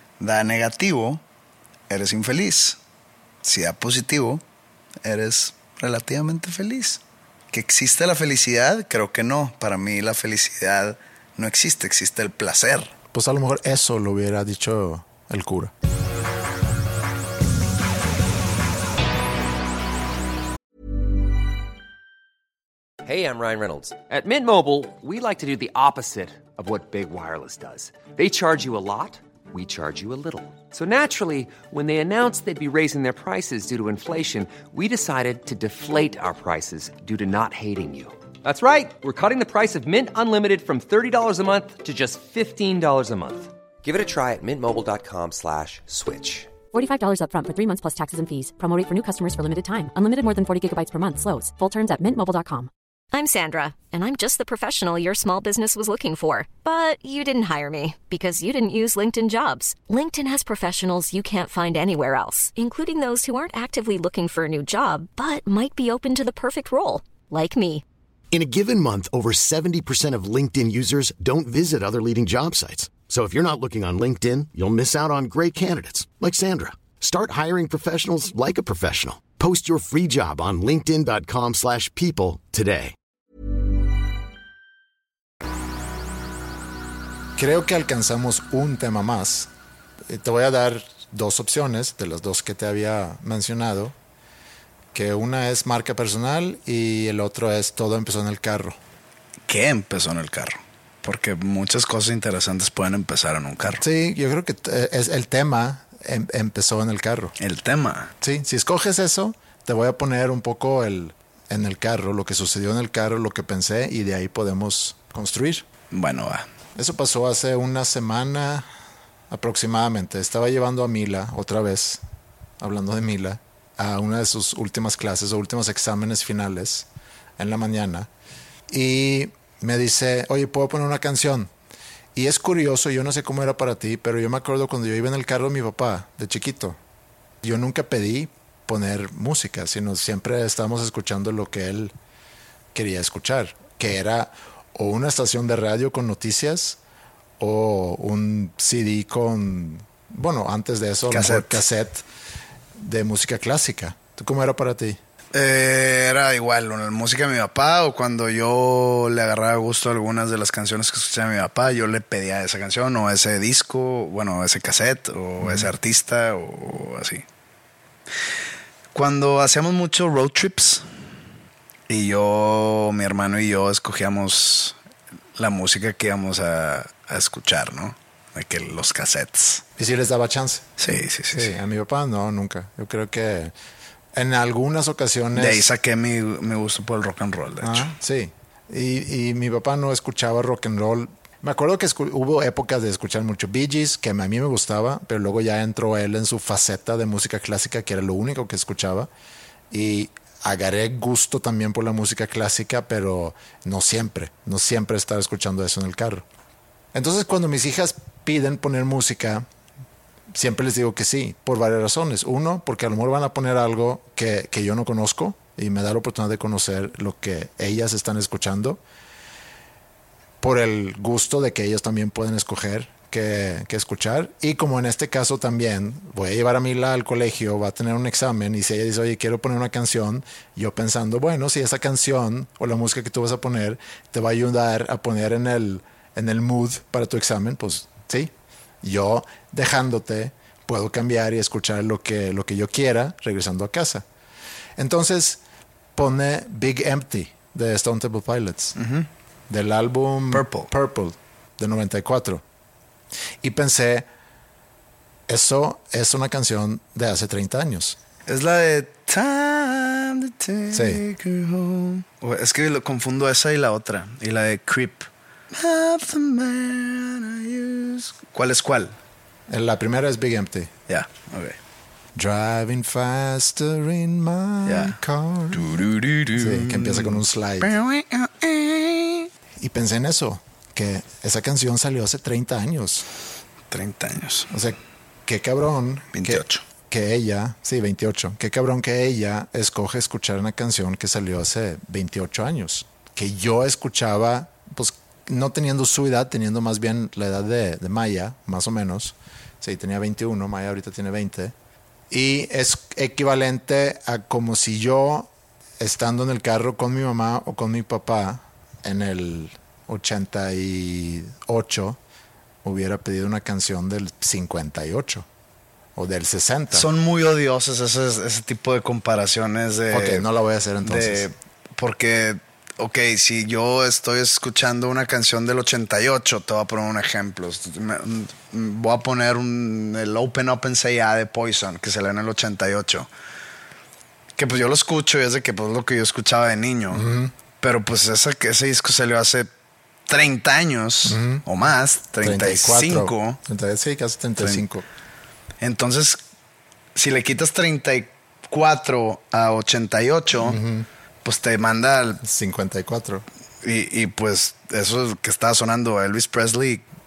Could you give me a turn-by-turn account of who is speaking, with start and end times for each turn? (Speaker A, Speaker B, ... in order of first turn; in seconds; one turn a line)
Speaker A: 0.2-1.2
Speaker A: 1.9-2.8
Speaker A: 3.4-4.4
Speaker A: 5.0-7.0
Speaker A: 7.5-12.9
Speaker B: 13.1-15.7
Speaker C: 23.0-46.6
Speaker D: 46.7-52.7
Speaker E: 53.1-67.8
Speaker F: 68.3-83.0
Speaker B: 87.4-89.5
Speaker B: 90.1-94.0
Speaker B: 94.9-98.8
Speaker A: 99.5-103.8
Speaker B: 103.8-107.3
Speaker A: 107.4-108.1
Speaker B: 108.2-115.6
Speaker A: 115.9-116.5
Speaker B: 116.8-118.7
Speaker B: 119.3-122.0
Speaker B: 122.6-126.9
Speaker B: 127.4-128.1
Speaker B: 128.7-131.5
Speaker B: 132.1-136.8
Speaker B: 137.4-141.9
Speaker B: 142.7-146.8
Speaker B: 147.4-152.1
Speaker A: 151.1-151.6
Speaker B: 152.8-155.0
Speaker A: 155.3-167.2
Speaker B: 165.4-165.7
Speaker A: 168.9-170.8
Speaker A: 171.9-174.8
Speaker A: 175.4-179.6
Speaker B: 179.8-180.7
Speaker A: 180.8-181.5
Speaker B: 181.3-183.5
Speaker B: 184.1-185.7
Speaker A: 185.4-187.9
Speaker B: 187.6-199.1
Speaker B: 199.7-206.2
Speaker B: 206.9-209.4
Speaker B: 210.3-218.8
Speaker B: 220.4-244.1
Speaker B: 244.8-245.4
Speaker B: 245.9-248.7
Speaker A: 248.8-249.1
Speaker B: 249.5-252.4
Speaker A: 250.3-250.7
Speaker B: 253.4-254.1
Speaker B: 255.3-258.0
Speaker A: 258.3-268.9
Speaker B: 260.7-261.0
Speaker B: 269.5-270.7
Speaker A: 270.9-271.6
Speaker B: 272.1-275.8
Speaker A: 274.6-275.0
Speaker A: 275.5-279.3
Speaker B: 276.4-277.7
Speaker B: 279.6-283.1
Speaker A: 283.7-284.5
Speaker B: 284.5-301.5
Speaker A: 286.1-286.6
Speaker B: 302.1-312.0
Speaker B: 312.6-315.3
Speaker B: 315.9-316.9
Speaker A: 316.7-320.3
Speaker B: 319.9-321.3
Speaker A: 320.8-333.1
Speaker A: 334.4-337.1
Speaker B: 336.9-337.3
Speaker A: 337.6-339.5
Speaker A: 340.1-343.4
Speaker B: 341.1-341.4
Speaker B: 342.2-344.9
Speaker A: 345.6-346.2
Speaker A: 346.9-350.6
Speaker B: 350.4-350.9
Speaker A: 351.2-352.2
Speaker B: 352.2-353.2
Speaker A: 353.6-356.8